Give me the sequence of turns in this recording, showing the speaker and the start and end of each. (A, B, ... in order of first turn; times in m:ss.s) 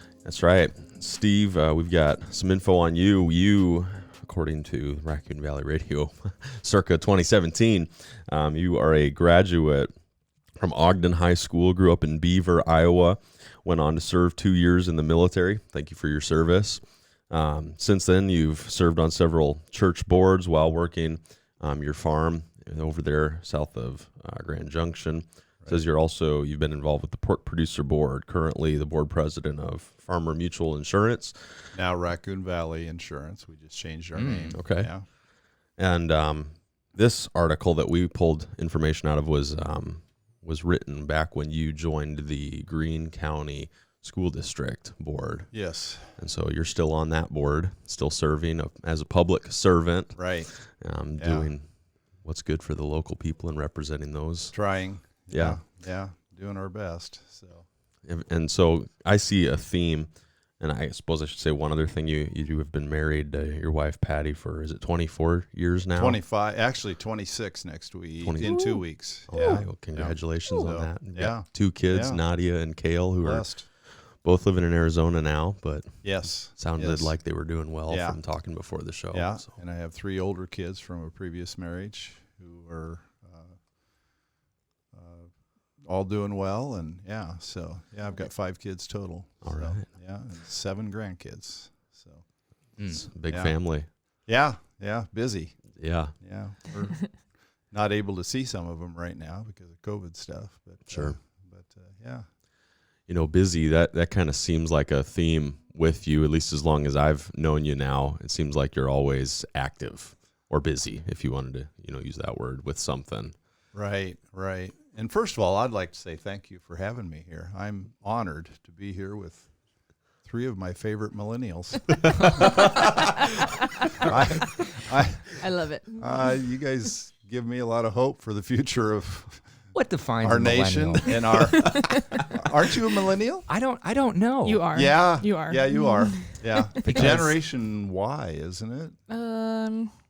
0:00.2-0:09.9 A
0:10.5-0:31.4 A
0:31.7-0:35.1 B
0:34.1-0:34.6 C
0:34.5-0:35.1 A
0:35.6-0:54.7 A
0:45.5-0:46.1 B
0:50.1-0:50.5 B
0:51.2-0:51.5 B
0:54.5-0:57.7 B
0:55.3-0:55.6 A
0:58.0-1:06.2 A
1:06.0-1:12.2 B
1:08.2-1:19.6 A
1:08.4-1:09.7 D
1:10.4-1:10.7 D
1:13.2-1:13.7 B
1:16.0-1:18.2 B
1:19.1-1:23.6 B
1:24.9-1:25.3 B
1:25.8-1:32.2 B
1:29.4-1:29.8 A
1:32.8-1:33.0 C
1:32.9-1:33.9 A
1:33.3-1:42.3 B
1:35.7-1:36.2 A
1:40.9-1:41.2 A
1:43.1-1:53.3 A
1:53.7-1:59.5 B
2:00.2-2:02.7 B
2:04.0-2:05.4 B
2:05.4-2:06.4 D
2:06.0-2:13.5 B
2:09.7-2:11.7 C
2:13.5-2:14.6 C
2:14.4-2:17.0 D
2:14.7-2:19.0 B
2:16.8-2:17.4 C
2:19.1-2:19.9 D